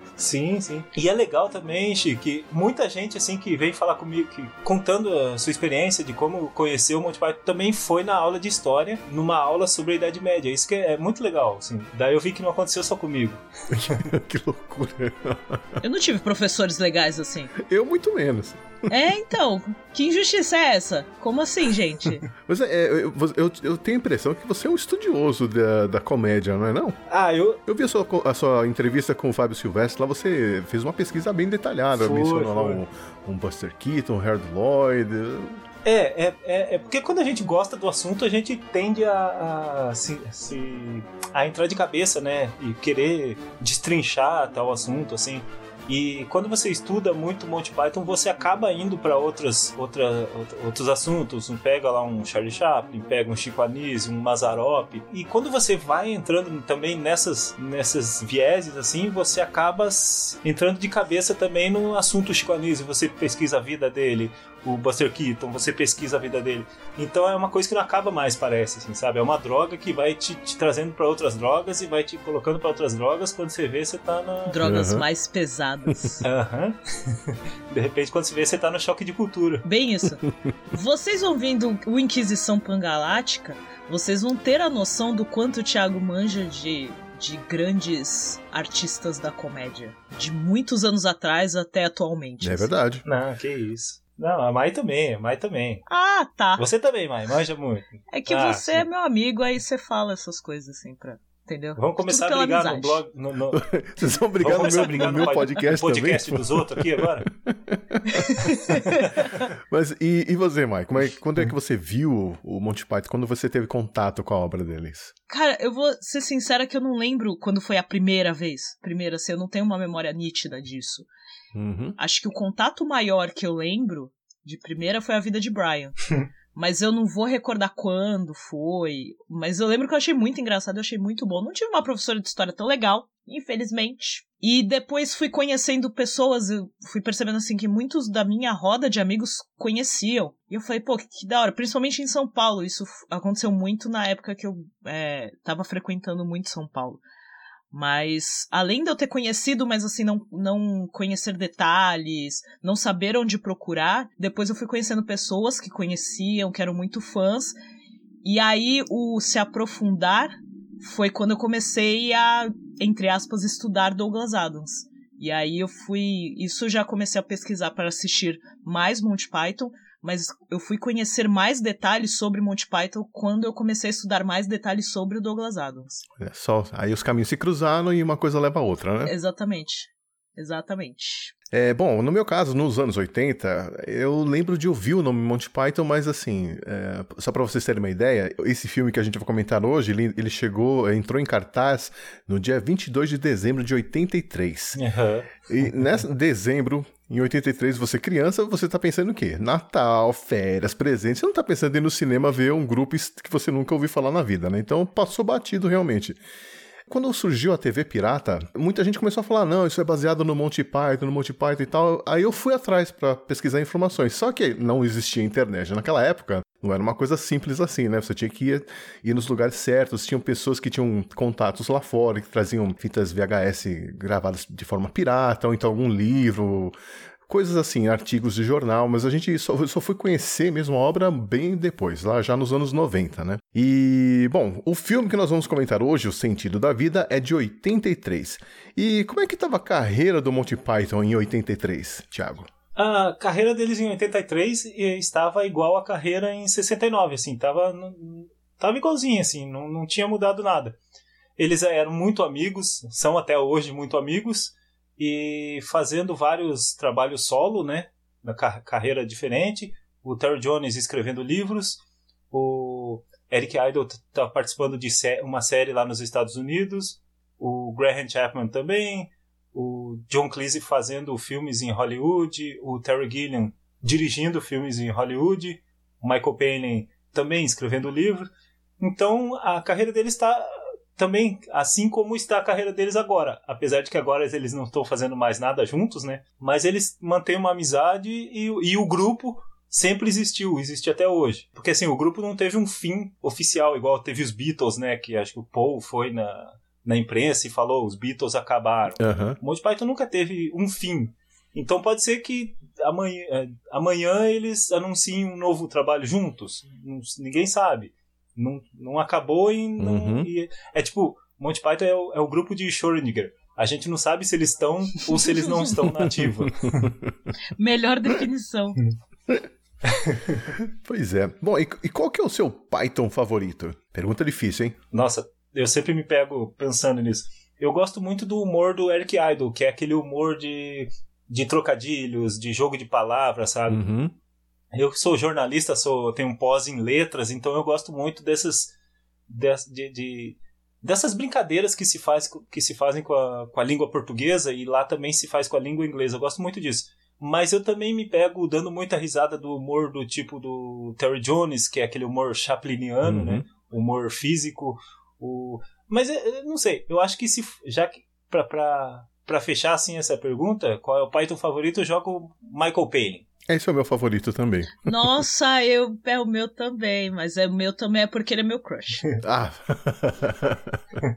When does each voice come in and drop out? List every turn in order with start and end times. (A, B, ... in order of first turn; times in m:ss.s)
0:00.2-0:14.0 A
0:13.7-0:15.8 B
0:15.8-0:17.5 C
0:17.6-0:18.9 B
0:18.9-0:22.2 C
0:22.4-0:27.0 B
0:27.1-0:27.6 A
0:27.7-0:35.6 B
0:32.0-0:32.8 A
0:35.8-1:14.6 A
1:14.5-1:16.2 C
1:14.6-1:15.0 B
1:16.2-1:19.7 A
1:19.6-1:32.7 C
1:32.4-1:33.0 B
1:33.0-1:35.8 A
1:35.9-1:36.6 C
1:36.6-1:38.8 A
1:38.1-1:43.0 C
1:41.8-1:47.3 A
1:43.5-1:48.3 B
1:44.5-1:45.5 C
1:48.1-1:49.2 C
1:49.4-1:55.1 B
1:55.3-2:01.1 C
2:01.5-2:02.0 B
2:02.0-2:06.0 C
2:06.5-2:27.0 C
2:27.7-2:37.5 C
2:38.2-2:56.0 C
2:56.2-2:59.1 B
2:59.0-3:01.3 C
3:01.5-3:14.8 B
3:14.8-3:15.3 A
3:15.5-3:26.2 B
3:26.9-3:46.8 B
3:47.3-4:02.5 B
4:02.8-4:10.8 A
4:11.4-4:21.8 A
4:22.3-4:38.3 A
4:38.8-5:16.9 A
4:59.0-4:59.4 B
5:09.8-5:10.3 B
5:16.7-5:17.1 B
5:17.6-5:18.8 C
5:19.9-5:20.4 A
5:20.6-5:24.8 B
5:24.9-5:33.8 A
5:33.7-5:34.1 B
5:34.7-5:38.7 A
5:39.3-6:03.3 A
5:53.0-5:53.4 B
6:03.5-6:04.9 B
6:04.8-6:09.1 C
6:09.2-6:10.8 B